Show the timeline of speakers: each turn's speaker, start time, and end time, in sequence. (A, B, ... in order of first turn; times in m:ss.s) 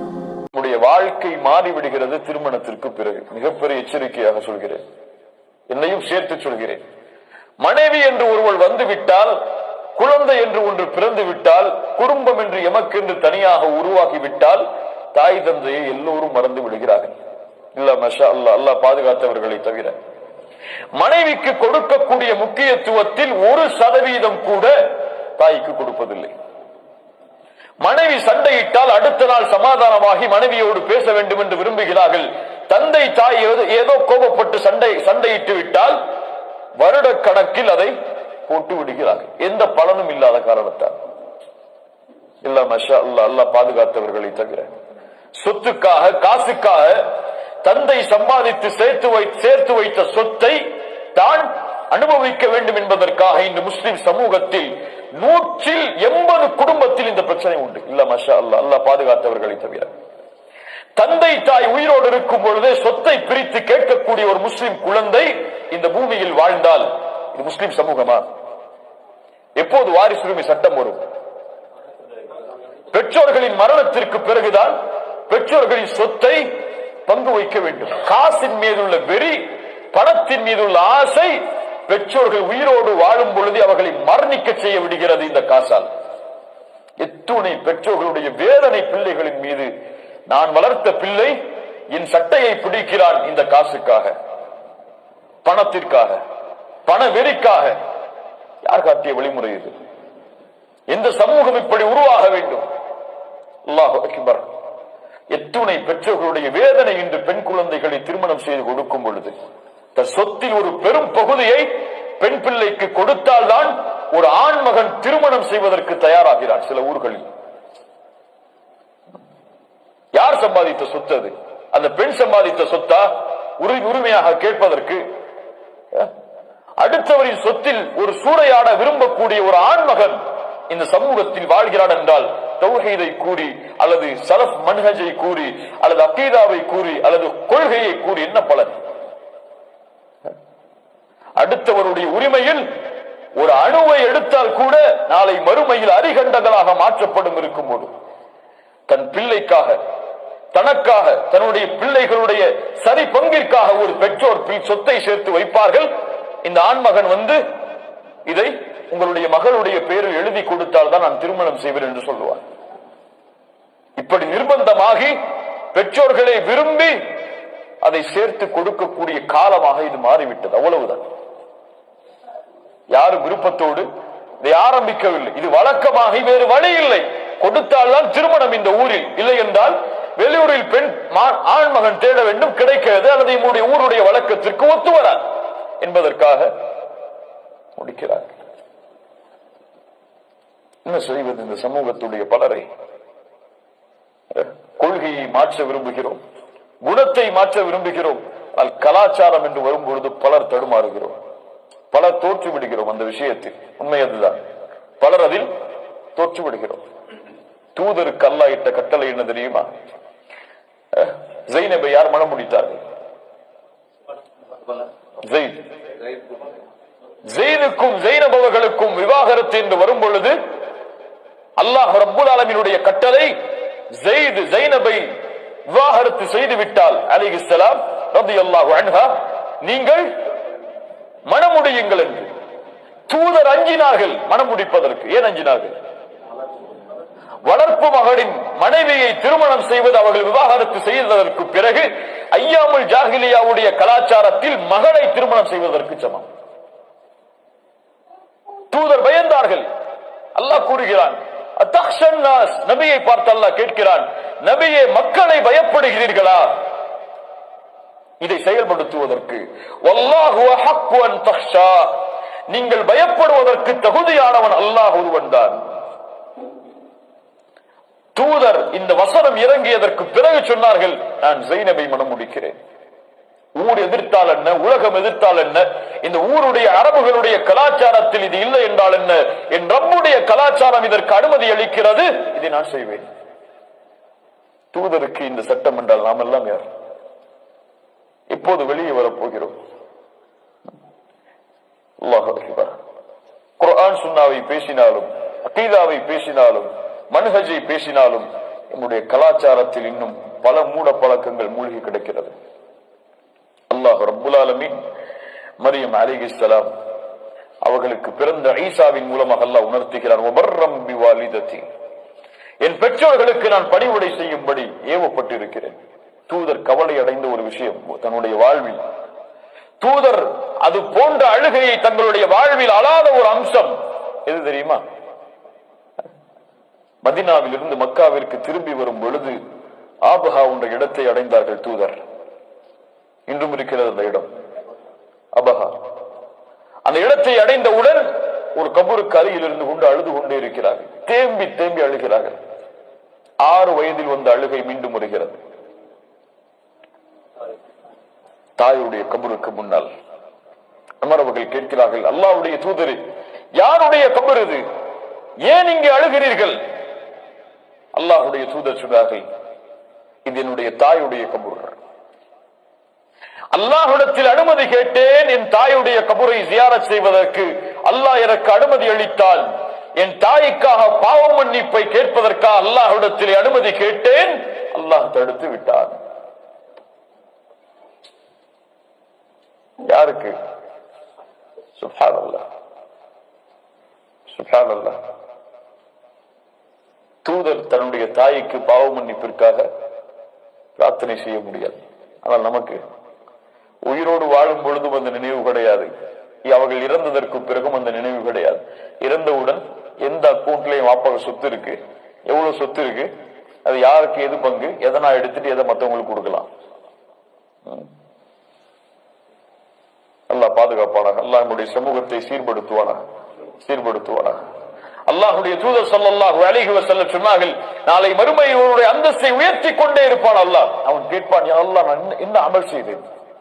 0:00.5-0:04.8 A
0:05.7-0:06.8 A
0:07.6-0:09.4 A
0:10.0-0:17.1 A
0:17.7-0:19.9 A
0:20.9-0:26.3 A
0:27.8-0:36.0 A
0:36.8-0:37.9 A
0:38.5-0:40.9 A
0:42.4-0:44.7 A
0:45.4-0:59.9 A
1:01.0-1:08.2 A
1:09.6-1:11.0 A
1:12.9-1:14.8 A
1:15.3-1:16.5 A
1:17.0-1:25.9 A
1:27.0-1:29.7 A
1:30.3-1:34.1 A
1:35.4-1:36.2 A
1:36.8-1:37.8 A
1:38.6-1:39.7 A
1:40.9-1:42.6 A
1:43.7-1:44.4 A
1:45.3-1:49.3 A
1:49.9-1:57.2 A
2:00.1-2:05.0 A
2:06.8-2:18.7 A
2:21.4-2:22.6 A
2:23.3-2:27.9 A
2:28.9-2:29.8 A
2:30.5-2:35.9 A
2:36.4-2:37.4 A
2:38.2-2:42.4 A
2:44.0-2:45.2 A
2:45.7-2:47.0 A
2:47.8-2:51.0 A
2:52.9-2:53.9 A
2:54.4-3:05.2 A
3:05.8-3:06.5 A
3:07.8-3:08.3 A
3:10.8-3:12.6 A
3:14.3-3:16.2 A
3:16.8-3:21.2 A
3:21.9-3:24.4 A
3:25.0-3:25.5 A
3:26.2-3:26.8 A
3:27.7-3:29.7 A
3:30.9-3:32.8 A
3:35.2-3:35.7 A
3:37.3-3:40.4 A
3:41.6-3:43.3 A
3:43.9-3:45.1 A
3:45.6-3:50.1 A
3:51.3-3:52.3 A
3:53.1-3:55.8 A
3:57.4-4:06.3 A
4:08.7-4:09.6 A
4:10.4-4:16.6 A
4:18.2-4:25.6 A
4:28.1-4:32.6 A
4:33.6-4:43.1 A
4:44.7-4:46.6 A
4:48.3-4:49.5 A
4:52.0-4:52.7 A
4:53.6-5:02.3 A
5:03.7-5:04.7 A
5:05.6-5:06.7 A
5:07.6-5:11.6 A
5:12.6-5:15.8 A
5:16.3-5:18.8 A
5:19.8-5:24.8 A
5:27.0-5:29.4 A
5:30.0-5:32.0 A
5:33.3-5:34.3 A
5:35.3-5:35.8 A
5:36.8-5:42.4 A
5:43.4-5:45.4 A
5:48.6-5:49.9 A
5:51.0-5:53.0 A
5:53.6-5:54.6 A
5:55.4-5:56.6 A
5:57.9-5:59.2 A
6:00.2-6:01.8 A
6:03.5-6:16.0 A
6:19.9-6:20.4 A
6:21.8-6:22.4 A
6:24.3-6:25.0 A
6:27.2-6:29.7 A
6:30.8-6:32.8 A
6:33.8-6:35.9 A
6:36.4-6:43.1 A
6:43.6-6:46.5 A
6:50.3-6:53.0 A
6:53.6-6:54.4 A
6:55.1-7:03.0 A